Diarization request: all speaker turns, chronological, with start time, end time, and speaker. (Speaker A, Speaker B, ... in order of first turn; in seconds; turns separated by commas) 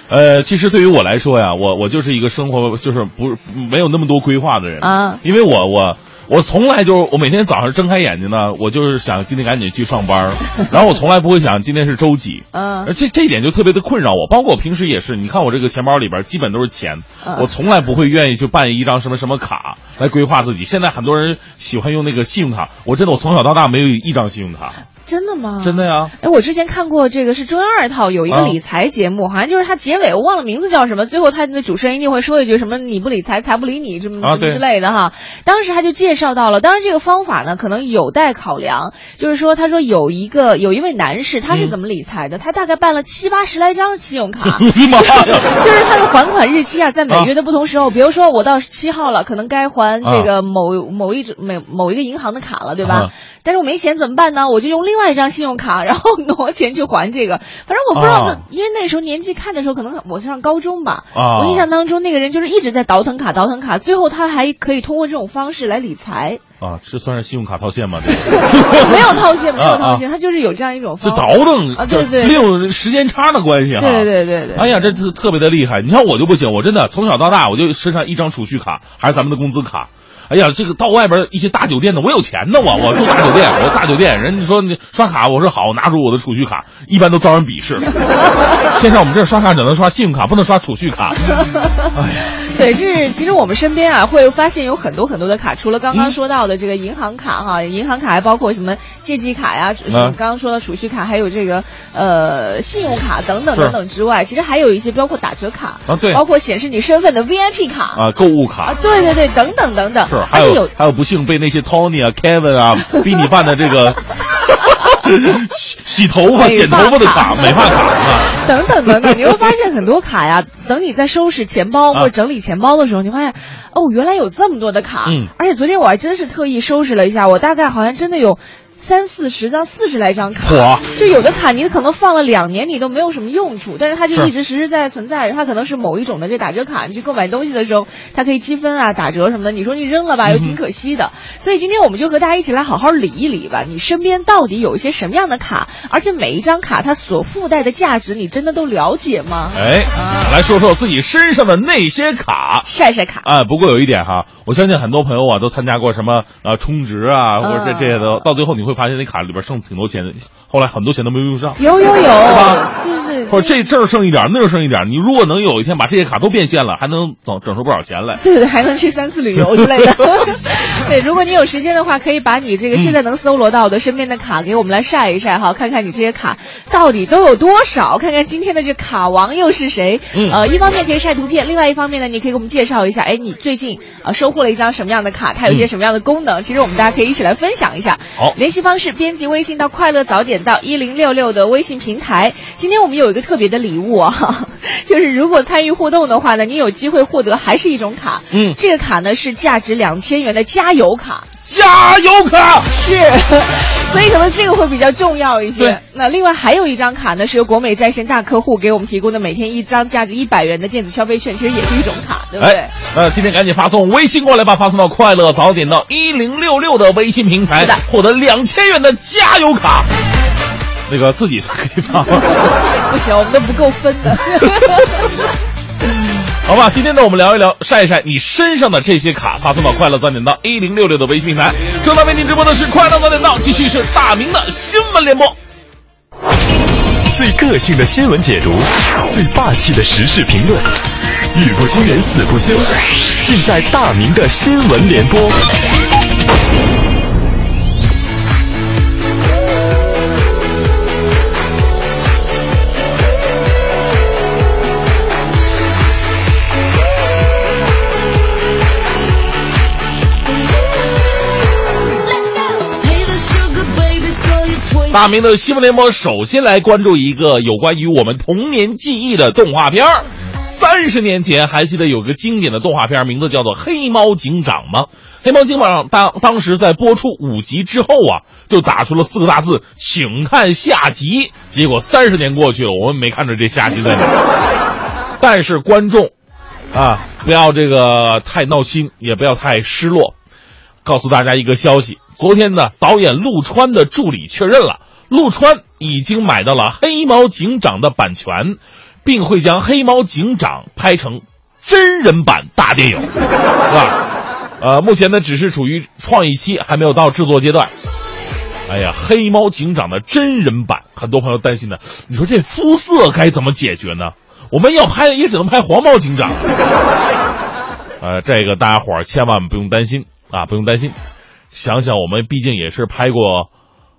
Speaker A: 0.1-24.8, Speaker B: 4.8-5.2, Speaker B: 12.5-12.9, Speaker B: 17.2-17.5, Speaker B: 25.1-66.4, Speaker A: 25.6-26.1, Speaker A: 28.3-28.6, Speaker A: 34.2-34.6, Speaker A: 41.5-41.8, Speaker A: 44.5-45.5, Speaker A: 50.0-50.3, Speaker A: 52.8-53.1, Speaker A: 57.9-58.4, Speaker A: 61.1-61.6, Speaker A: 66.6-70.0, Speaker B: 68.2-72.5, Speaker A: 71.0-91.2, Speaker B: 73.8-74.9, Speaker B: 91.8-108.0, Speaker A: 91.9-92.3, Speaker A: 99.9-100.2, Speaker A: 105.9-106.2, Speaker A: 108.0-108.8, Speaker B: 108.6-110.7, Speaker A: 110.1-119.2, Speaker B: 116.3-117.5, Speaker B: 118.3-150.3, Speaker A: 125.0-125.3, Speaker A: 130.4-130.9, Speaker A: 140.3-140.6, Speaker A: 149.6-152.7, Speaker B: 152.7-153.3, Speaker A: 153.2-161.6, Speaker B: 157.4-158.2, Speaker B: 161.6-163.6, Speaker A: 162.2-162.7, Speaker A: 163.3-168.2, Speaker B: 168.2-201.3, Speaker A: 169.6-169.9, Speaker A: 180.1-180.4, Speaker A: 198.3-198.6, Speaker A: 201.4-202.7, Speaker B: 202.7-212.7, Speaker A: 212.4-219.9, Speaker A: 220.9-222.6, Speaker B: 222.3-225.1, Speaker A: 226.4-235.4, Speaker C: 237.1-240.7, Speaker C: 241.3-245.4, Speaker A: 264.9-284.2, Speaker A: 285.2-286.1, Speaker A: 286.7-290.1, Speaker A: 290.8-303.1, Speaker A: 303.7-304.1, Speaker A: 304.6-307.7, Speaker A: 308.7-316.5, Speaker A: 318.0-321.0, Speaker A: 321.5-323.5